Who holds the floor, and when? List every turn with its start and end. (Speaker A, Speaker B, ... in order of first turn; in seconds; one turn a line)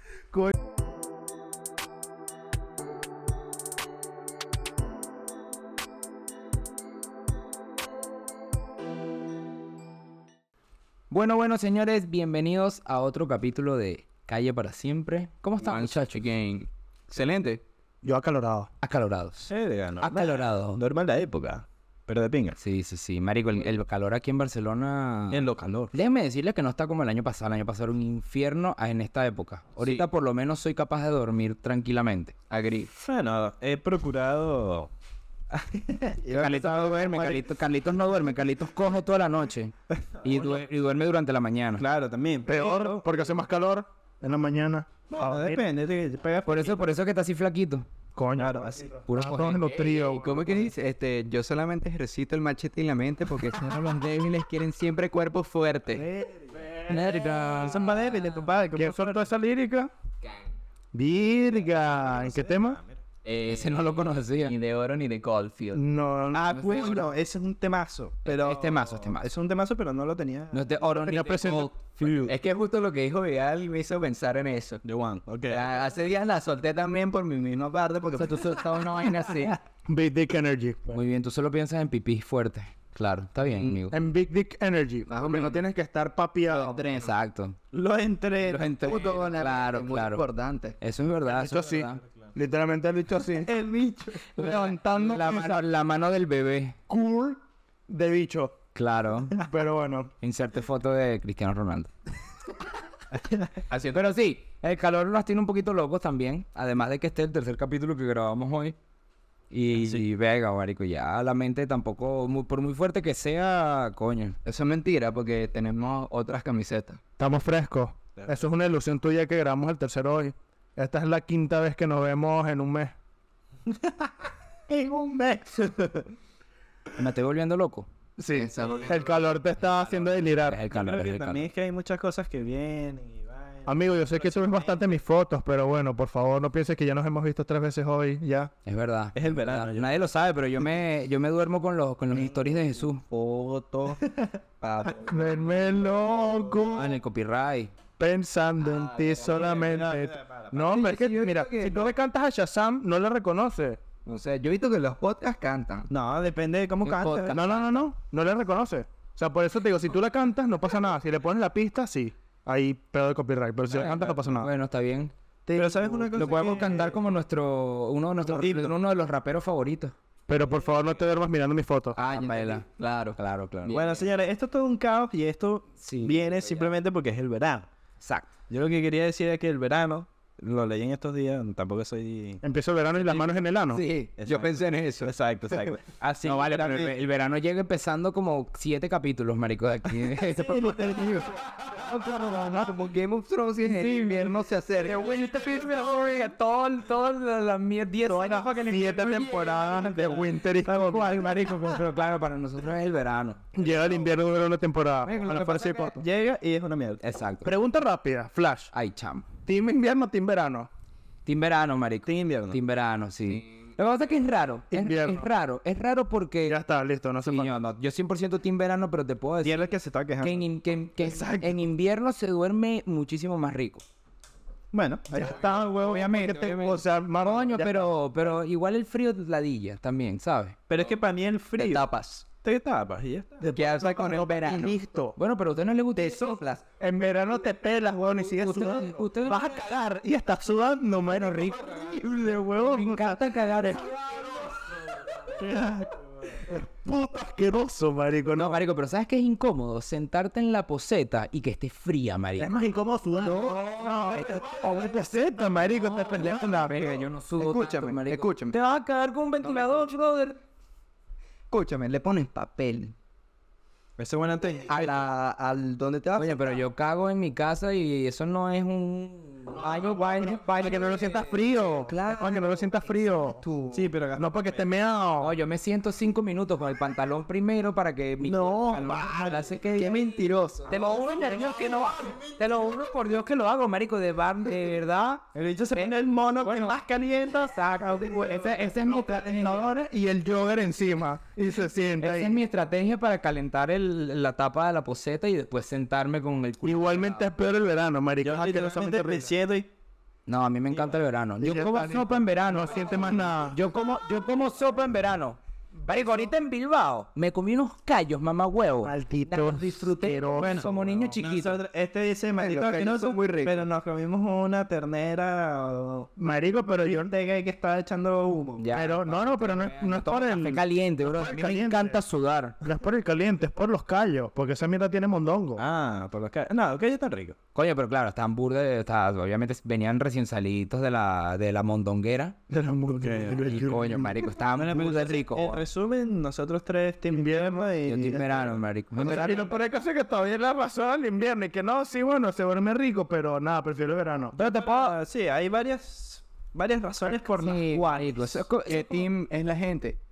Speaker A: 11.1-16.2
Speaker B: 15.6-17.6
Speaker C: 18.0-18.7
Speaker A: 18.8-19.5
Speaker D: 19.5-22.6
Speaker A: 20.0-20.8
Speaker A: 22.6-32.5
Speaker D: 25.3-25.9
Speaker B: 32.5-32.9
Speaker D: 33.0-34.9
Speaker D: 35.5-37.4
Speaker A: 36.3-41.8
Speaker D: 39.9-40.5
Speaker D: 41.8-43.0
Speaker C: 42.5-45.6
Speaker D: 45.1-46.8
Speaker A: 46.5-47.9
Speaker C: 48.1-50.3
Speaker D: 48.4-48.9
Speaker A: 49.1-49.7
Speaker B: 50.1-56.1
Speaker D: 56.0-56.5
Speaker C: 56.7-57.0
Speaker A: 56.9-58.1
Speaker D: 57.4-59.2
Speaker C: 58.8-59.9
Speaker C: 60.9-62.8
Speaker D: 61.8-63.0
Speaker A: 63.2-65.8
Speaker B: 64.6-65.8
Speaker C: 65.7-66.6
Speaker D: 66.3-70.7
Speaker A: 66.6-67.0
Speaker A: 68.3-69.3
Speaker A: 70.5-73.4
Speaker C: 70.9-71.7
Speaker D: 72.0-72.3
Speaker B: 73.4-74.8
Speaker D: 74.8-75.6
Speaker B: 75.5-79.5
Speaker A: 78.2-79.5
Speaker C: 79.9-81.0
Speaker A: 80.9-84.0
Speaker C: 83.9-86.9
Speaker B: 85.1-85.6
Speaker A: 86.5-87.6
Speaker D: 87.7-88.9
Speaker A: 88.5-90.2
Speaker B: 88.8-90.8
Speaker A: 90.8-92.0
Speaker C: 91.3-93.5
Speaker D: 93.4-94.3
Speaker C: 94.4-95.6
Speaker A: 94.4-96.8
Speaker C: 96.9-98.6
Speaker A: 98.8-99.4
Speaker C: 99.5-100.1
Speaker A: 100.2-101.9
Speaker D: 103.1-103.5
Speaker A: 103.7-108.8
Speaker A: 109.5-114.4
Speaker D: 109.7-110.0
Speaker B: 114.5-117.0
Speaker C: 117.2-123.0
Speaker D: 124.7-126.1
Speaker A: 127.0-127.9
Speaker C: 128.2-130.6
Speaker B: 128.3-129.0
Speaker A: 130.5-131.5
Speaker D: 130.7-135.0
Speaker C: 133.7-138.5
Speaker A: 138.7-143.0
Speaker D: 139.2-139.9
Speaker B: 143.1-144.0
Speaker B: 144.6-145.1
Speaker C: 145.1-146.9
Speaker A: 146.7-147.7
Speaker C: 148.0-153.8
Speaker D: 149.1-150.6
Speaker B: 150.6-151.9
Speaker B: 154.1-155.9
Speaker D: 155.9-157.4
Speaker A: 156.8-157.9
Speaker C: 157.3-164.5
Speaker A: 163.8-165.1
Speaker C: 165.5-166.4
Speaker D: 165.6-166.9
Speaker A: 166.2-169.9
Speaker D: 168.2-168.7
Speaker C: 170.3-172.0
Speaker B: 171.9-173.2
Speaker A: 172.1-172.7
Speaker A: 173.2-173.9
Speaker D: 173.7-177.7
Speaker A: 175.8-176.7
Speaker A: 178.0-178.3
Speaker D: 178.5-182.4
Speaker C: 182.4-183.8
Speaker B: 183.7-185.6
Speaker D: 184.2-186.9
Speaker A: 186.2-190.7
Speaker D: 190.4-191.2
Speaker B: 190.4-195.2
Speaker A: 193.7-199.5
Speaker C: 198.1-201.1
Speaker D: 199.1-200.1
Speaker A: 200.7-203.4
Speaker C: 203.5-206.0
Speaker A: 205.1-205.9
Speaker D: 205.9-207.0
Speaker A: 207.0-207.5
Speaker C: 207.4-208.7
Speaker A: 208.7-209.3
Speaker C: 209.4-210.7
Speaker A: 211.3-216.6
Speaker D: 212.1-212.6
Speaker C: 214.7-215.3
Speaker C: 216.5-217.5
Speaker A: 217.2-219.6
Speaker D: 219.4-220.3
Speaker A: 220.2-223.8
Speaker C: 221.0-221.6
Speaker D: 224.7-225.5
Speaker C: 225.1-227.9
Speaker A: 225.8-230.6
Speaker D: 230.7-231.8
Speaker B: 231.6-232.2
Speaker D: 232.4-233.4
Speaker B: 233.4-234.8
Speaker C: 233.5-235.2
Speaker A: 235.2-236.4
Speaker B: 236.0-236.6
Speaker C: 236.8-243.3
Speaker A: 238.2-239.5
Speaker A: 242.6-244.5
Speaker C: 245.4-245.9
Speaker C: 246.4-248.6
Speaker A: 248.3-252.5
Speaker C: 252.4-256.8
Speaker A: 253.3-253.5
Speaker A: 256.6-260.4
Speaker B: 257.4-258.6
Speaker B: 261.5-262.9
Speaker D: 264.0-264.9
Speaker B: 264.7-266.4
Speaker A: 266.2-271.2
Speaker C: 270.2-273.4
Speaker B: 271.8-273.9
Speaker D: 273.7-274.6
Speaker C: 274.2-275.3
Speaker A: 275.2-280.2
Speaker D: 278.2-280.3
Speaker B: 279.8-280.7
Speaker A: 280.7-285.9
Speaker D: 285.3-288.2
Speaker A: 286.4-286.8
Speaker A: 287.3-289.6
Speaker C: 289.0-292.4
Speaker A: 292.0-297.3
Speaker C: 296.6-299.3
Speaker D: 298.2-299.7
Speaker A: 300.3-311.6
Speaker C: 301.4-303.6
Speaker C: 308.8-310.7
Speaker D: 310.4-316.1
Speaker B: 312.4-313.6
Speaker C: 316.2-317.1
Speaker D: 316.9-318.7
Speaker A: 318.6-322.6
Speaker C: 318.7-322.0
Speaker C: 322.6-325.6
Speaker D: 325.6-327.4
Speaker A: 327.6-332.4
Speaker C: 332.5-334.3
Speaker D: 333.0-333.5
Speaker A: 333.4-335.6
Speaker D: 334.6-338.6
Speaker C: 337.1-337.7
Speaker A: 337.9-339.4
Speaker C: 339.0-344.4
Speaker D: 344.4-348.4
Speaker A: 344.4-345.0
Speaker A: 347.4-349.0
Speaker B: 348.6-350.0